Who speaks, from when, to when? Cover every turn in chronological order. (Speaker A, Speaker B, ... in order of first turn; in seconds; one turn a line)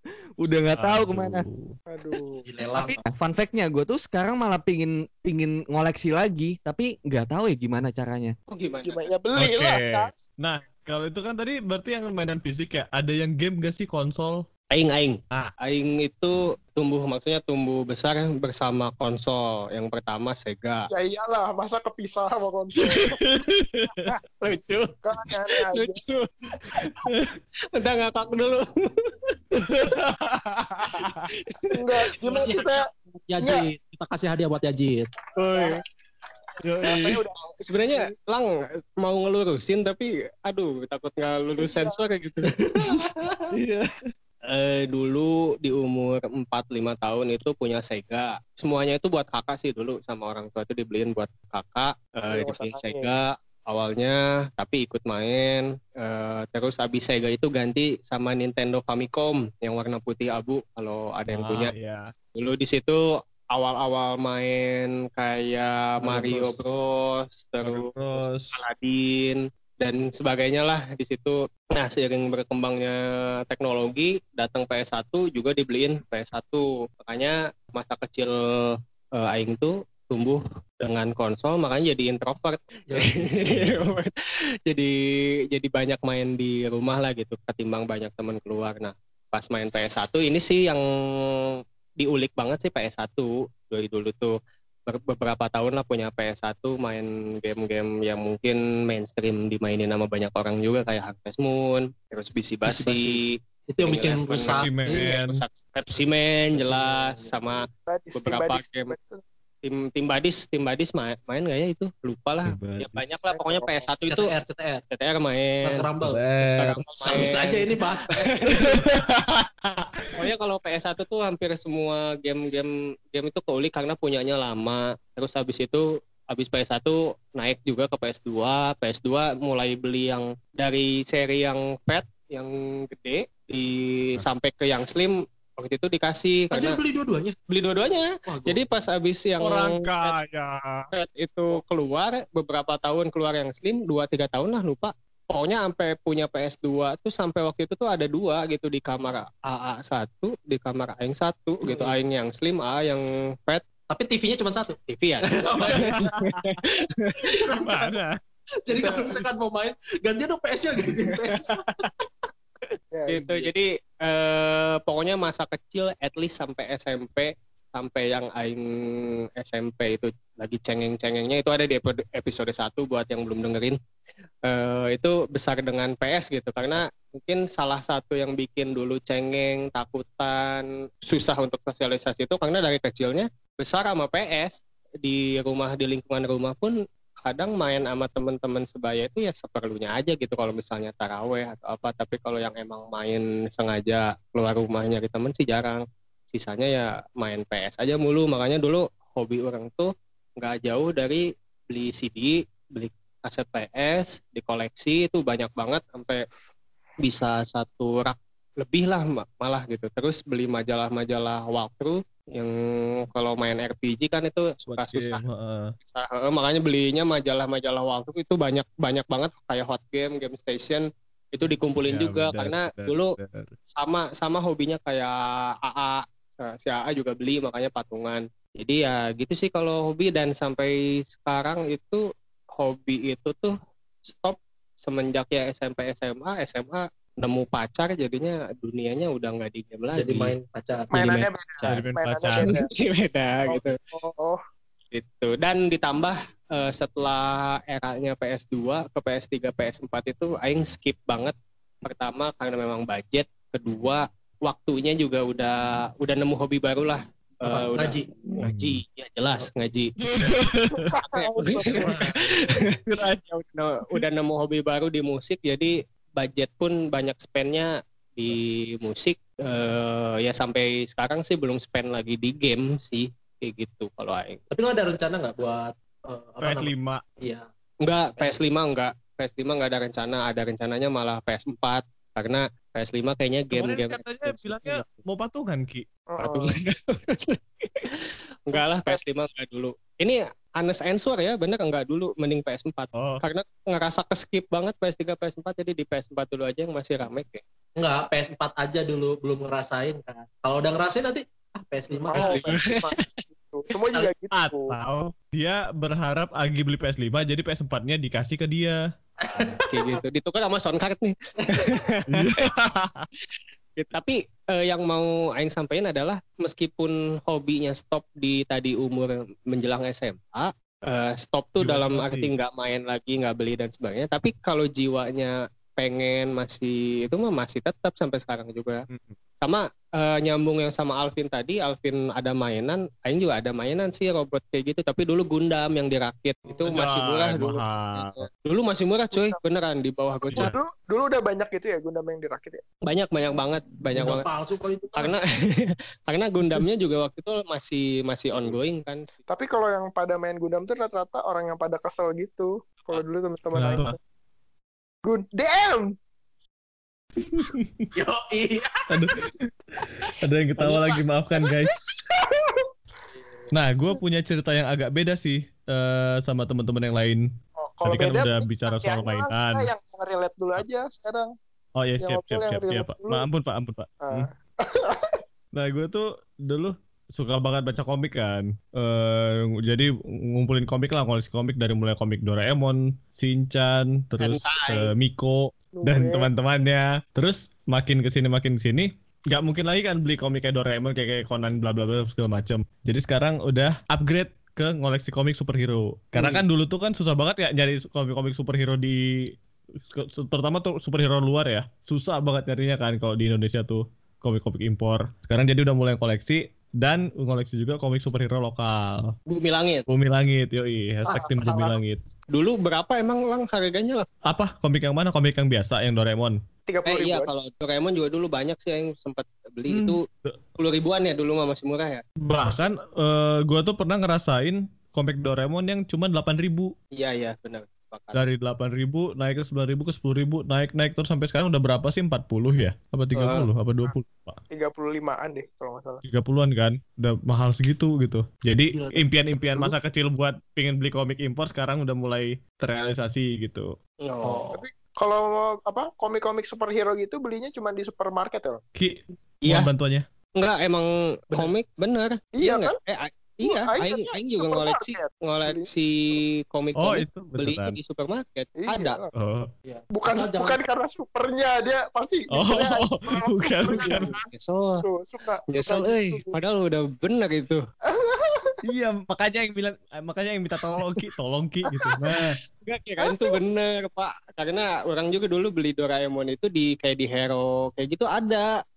Speaker A: 0.4-1.4
Speaker B: 0.7-1.7
Speaker C: 1.9-2.4
Speaker D: 2.4-3.0
Speaker A: 3.0-8.3
Speaker E: 8.5-9.1
Speaker C: 8.8-10.2
Speaker B: 9.4-14.4
Speaker E: 14.7-20.9
Speaker C: 20.9-23.2
Speaker B: 22.9-24.1
Speaker E: 24.4-25.0
Speaker C: 25.0-26.0
Speaker E: 25.6-27.1
Speaker B: 27.0-27.3
Speaker E: 27.7-29.0
Speaker B: 29.6-31.2
Speaker E: 31.0-31.3
Speaker C: 31.7-32.8
Speaker D: 32.2-35.1
Speaker C: 33.4-33.6
Speaker E: 35.4-35.8
Speaker C: 35.4-35.8
Speaker B: 36.6-37.2
Speaker C: 36.8-38.0
Speaker E: 36.9-42.5
Speaker C: 41.6-42.0
Speaker D: 42.5-43.5
Speaker B: 43.5-44.0
Speaker E: 44.5-61.7
Speaker C: 52.3-53.1
Speaker B: 61.3-62.0
Speaker E: 62.3-84.1
Speaker D: 66.0-66.6
Speaker B: 67.6-68.5
Speaker D: 82.9-83.2
Speaker B: 83.5-83.8
Speaker E: 84.7-84.9
Speaker E: 85.5-90.8
Speaker E: 92.0-94.3
Speaker E: 94.9-103.2
Speaker D: 102.7-105.2
Speaker E: 103.8-108.9
Speaker B: 104.5-105.4
Speaker D: 106.5-107.6
Speaker C: 107.8-109.2
Speaker E: 109.6-114.3
Speaker B: 112.4-113.1
Speaker C: 113.3-113.9
Speaker D: 114.1-114.8
Speaker E: 114.9-115.8
Speaker D: 115.6-116.2
Speaker B: 116.0-116.8
Speaker E: 116.5-118.8
Speaker D: 116.8-118.5
Speaker B: 118.5-120.1
Speaker E: 120.2-136.8
Speaker D: 136.5-137.3
Speaker E: 137.5-140.2
Speaker D: 138.2-138.6
Speaker B: 139.4-140.9
Speaker E: 140.9-153.6
Speaker D: 151.6-151.9
Speaker D: 153.9-156.1
Speaker E: 154.9-157.4
Speaker B: 155.7-156.6
Speaker D: 157.2-157.9
Speaker B: 157.6-158.2
Speaker D: 158.6-161.8
Speaker C: 162.9-163.5
Speaker E: 163.1-173.8
Speaker E: 174.4-206.2
Speaker E: 207.0-212.6
Speaker E: 213.1-215.2
Speaker B: 214.7-215.7
Speaker E: 215.8-223.2
Speaker B: 221.9-223.5
Speaker E: 223.7-232.0
Speaker E: 232.6-233.5
Speaker E: 234.1-240.3
Speaker D: 239.9-240.9
Speaker E: 240.9-241.9
Speaker C: 240.9-242.7
Speaker B: 241.6-242.6
Speaker E: 242.4-243.7
Speaker C: 243.4-244.4
Speaker E: 244.9-259.9
Speaker D: 257.4-258.1
Speaker B: 258.4-258.8
Speaker B: 260.0-260.9
Speaker C: 260.8-262.0
Speaker E: 261.1-274.4
Speaker B: 261.6-263.2
Speaker D: 261.8-262.1
Speaker D: 274.5-277.4
Speaker B: 276.4-277.0
Speaker E: 277.8-285.0
Speaker B: 283.5-285.9
Speaker C: 286.1-286.6
Speaker E: 286.2-297.4
Speaker C: 288.5-289.0
Speaker B: 292.9-293.2
Speaker D: 297.8-302.6
Speaker C: 302.1-304.7
Speaker E: 302.1-303.0
Speaker B: 304.3-308.8
Speaker D: 309.2-309.9
Speaker E: 309.7-312.3
Speaker B: 312.1-313.1
Speaker E: 313.8-328.8
Speaker B: 321.6-322.3
Speaker B: 328.9-329.1
Speaker E: 329.4-340.5
Speaker B: 336.6-338.2
Speaker C: 339.1-339.4
Speaker C: 340.3-342.6
Speaker E: 342.9-344.3
Speaker D: 343.9-345.1
Speaker E: 344.9-349.1
Speaker C: 349.3-353.9
Speaker B: 353.5-353.9
Speaker C: 355.0-355.9
Speaker B: 357.3-357.9
Speaker D: 357.9-358.9
Speaker B: 358.9-359.2
Speaker B: 359.8-361.8
Speaker C: 360.6-362.6
Speaker B: 363.5-367.2
Speaker C: 367.6-371.3
Speaker B: 367.8-369.7
Speaker B: 371.8-374.3
Speaker C: 372.0-373.2
Speaker C: 374.0-375.2
Speaker B: 375.5-399.0
Speaker E: 384.2-384.9
Speaker C: 385.8-386.3
Speaker B: 399.9-409.1
Speaker E: 409.3-409.8
Speaker B: 409.9-412.0
Speaker C: 411.1-411.8
Speaker E: 412.3-414.1
Speaker B: 414.3-416.4
Speaker C: 416.7-417.3
Speaker E: 416.8-420.0
Speaker B: 419.7-420.4
Speaker E: 420.6-422.0
Speaker B: 422.2-426.7
Speaker E: 426.9-428.2
Speaker B: 428.1-434.4
Speaker E: 433.1-433.5
Speaker C: 434.5-436.0
Speaker B: 436.0-443.7
Speaker D: 438.7-439.1
Speaker E: 444.0-444.5
Speaker D: 444.2-444.6
Speaker C: 444.5-448.6
Speaker B: 448.8-450.0
Speaker E: 450.4-459.0
Speaker C: 452.4-452.8
Speaker C: 453.4-455.7
Speaker B: 456.8-457.8
Speaker C: 458.6-459.1
Speaker B: 459.1-459.5
Speaker D: 459.6-460.6
Speaker C: 459.9-464.2
Speaker B: 462.3-464.1
Speaker E: 463.7-464.8
Speaker C: 464.8-466.4
Speaker E: 465.5-467.6
Speaker C: 467.9-468.6
Speaker B: 468.6-472.4
Speaker E: 472.6-478.5
Speaker C: 473.0-473.3